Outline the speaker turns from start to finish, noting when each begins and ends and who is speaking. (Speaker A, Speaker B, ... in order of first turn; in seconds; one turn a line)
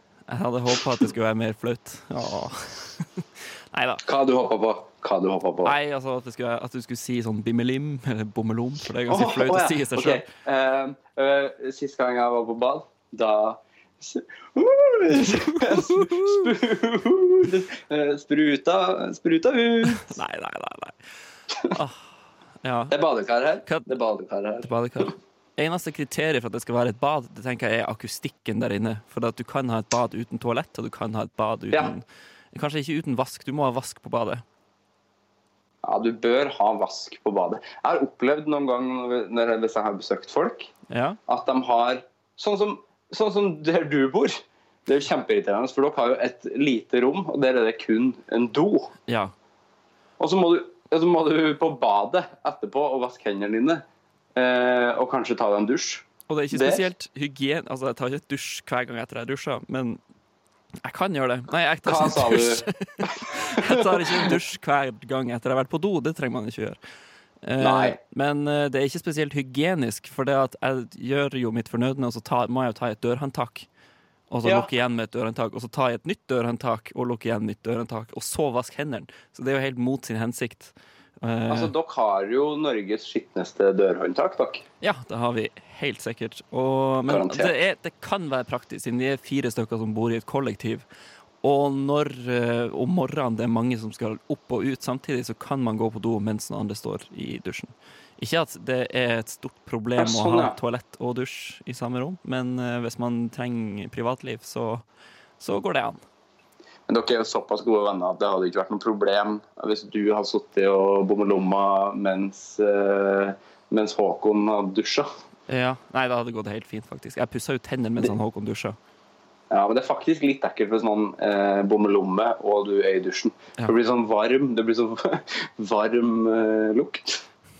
Speaker A: 0.3-4.0
Speaker B: 4.0-5.7
Speaker A: 5.6-10.3
Speaker B: 9.1-20.1
Speaker A: 15.5-16.5
Speaker A: 19.9-21.0
Speaker A: 21.7-22.0
Speaker A: 22.6-22.9
Speaker B: 22.9-25.1
Speaker A: 24.6-34.4
Speaker B: 35.8-40.7
Speaker A: 40.9-41.2
Speaker B: 41.3-48.9
Speaker A: 49.1-49.3
Speaker B: 50.2-53.8
Speaker B: 54.3-56.8
Speaker A: 56.3-60.0
Speaker A: 60.8-66.8
Speaker B: 61.8-62.6
Speaker B: 63.3-64.3
Speaker A: 67.4-73.7
Speaker B: 67.6-68.0
Speaker A: 74.3-81.7
Speaker B: 74.4-74.7
Speaker B: 81.5-84.6
Speaker A: 84.8-90.8
Speaker B: 87.1-87.5
Speaker A: 91.4-104.8
Speaker B: 100.0-100.5
Speaker A: 105.4-106.0
Speaker B: 106.9-115.1
Speaker A: 115.5-118.8
Speaker B: 119.5-127.2